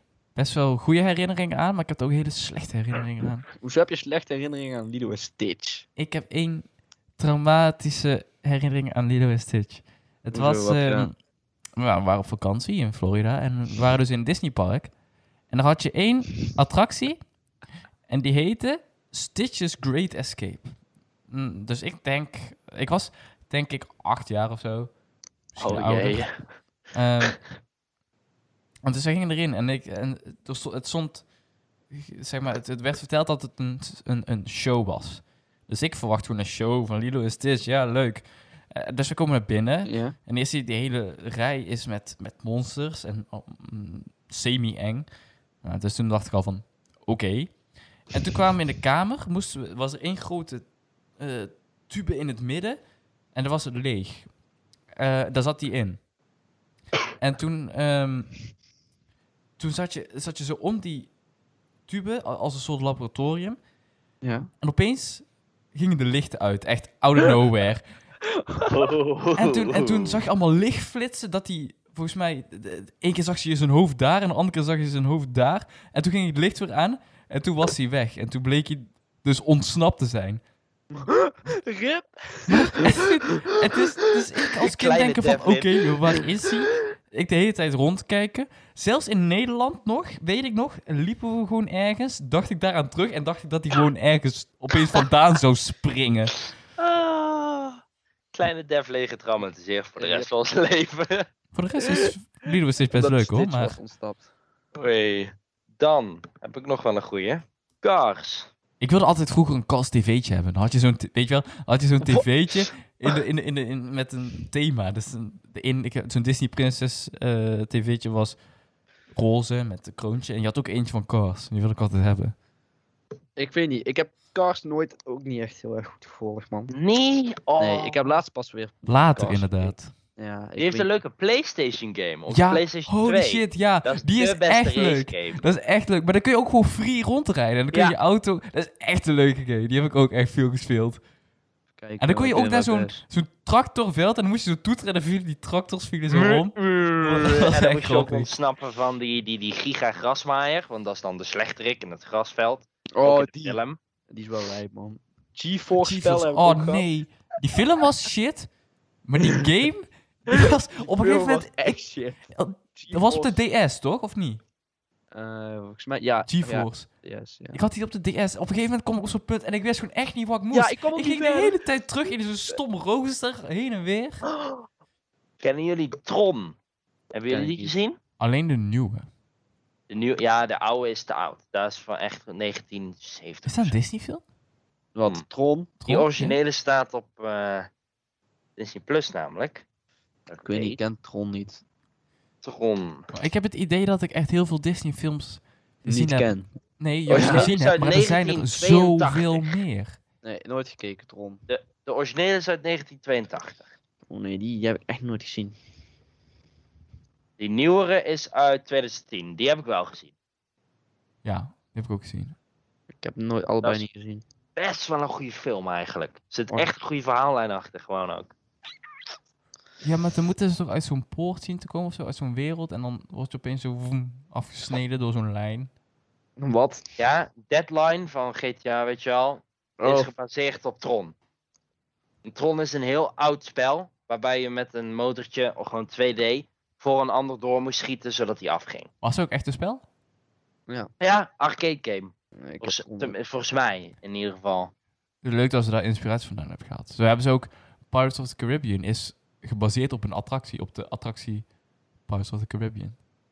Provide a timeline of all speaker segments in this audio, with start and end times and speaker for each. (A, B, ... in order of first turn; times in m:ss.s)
0:00.3-0:03.5 A
0:03.6-0:05.8 B
0:06.0-0:11.1 A
0:10.3-0:11.1 B
0:11.8-0:14.9 A
0:15.5-0:17.2 A
0:18.1-0:20.7 A
0:21.3-0:24.9 A
0:25.5-0:26.2 A
0:25.6-0:26.3 B
0:26.9-0:27.4 A
0:28.8-0:31.2 A
0:31.9-0:45.1 A
0:39.8-0:40.2 B
0:45.6-0:47.6 A
0:48.1-0:50.6 A
0:51.2-0:52.8 A
0:53.3-0:54.3 A
0:55.0-0:56.0 A
0:57.2-0:58.3 A
0:59.6-1:01.1 A
1:01.9-1:03.6 A
1:04.2-1:04.5 B
1:04.6-1:07.8 A
1:08.4-1:08.9 B
1:08.7-1:10.2 C
1:09.4-1:20.4 A
1:20.9-1:23.4 B
1:22.5-1:36.4 A
1:24.7-1:25.9 C
1:36.8-1:37.8 C
1:38.3-1:41.2 C
1:40.0-1:40.3 B
1:41.5-1:43.8 A
1:42.9-1:44.2 B
1:44.7-1:48.5 C
1:48.8-1:58.4 A
1:59.1-2:02.3 A
2:03.4-2:06.7 B
2:06.7-2:08.0 C
2:07.6-2:10.9 B
2:08.9-2:09.9 A
2:10.6-2:15.4 C
2:12.3-2:21.0 A
2:21.8-2:23.0 B
2:22.0-2:28.3 A
2:26.1-2:33.8 C
2:32.9-2:36.8 B
2:35.8-2:38.5 A
2:39.0-2:41.8 A
2:40.3-2:42.2 B
2:42.3-2:44.4 A
2:42.7-2:43.4 B
2:45.1-2:47.6 B
2:46.3-2:46.9 A
2:47.5-2:54.2 A
2:50.5-2:51.6 B
2:55.4-2:56.6 C
2:57.1-2:58.0 C
2:57.3-2:57.7 B
2:58.2-2:59.1 A
2:59.9-3:03.8 C
3:03.4-3:04.2 A
3:04.9-3:05.7 B
3:05.8-3:06.4 A
3:05.8-3:07.7 C
3:08.6-3:09.6 C
3:10.3-3:10.8 C
3:10.4-3:11.6 B
3:12.4-3:13.1 C
3:13.1-3:20.0 A
3:15.8-3:16.5 B
3:17.1-3:17.5 B
3:17.1-3:19.5 C
3:20.2-3:21.4 B
3:21.5-3:23.7 C
3:24.1-3:25.6 B
3:27.4-3:30.1 C
3:31.2-3:32.3 A
3:32.9-3:34.2 B
3:34.6-3:38.3 C
3:39.8-3:45.7 A
3:46.4-3:46.8 B
3:47.0-3:51.1 C
3:49.8-3:50.1 B
3:52.2-3:58.9 C
3:59.0-3:59.8 A
4:01.0-4:04.7 C
4:02.4-4:03.1 B
4:05.2-4:11.4 A
4:12.1-4:13.0 A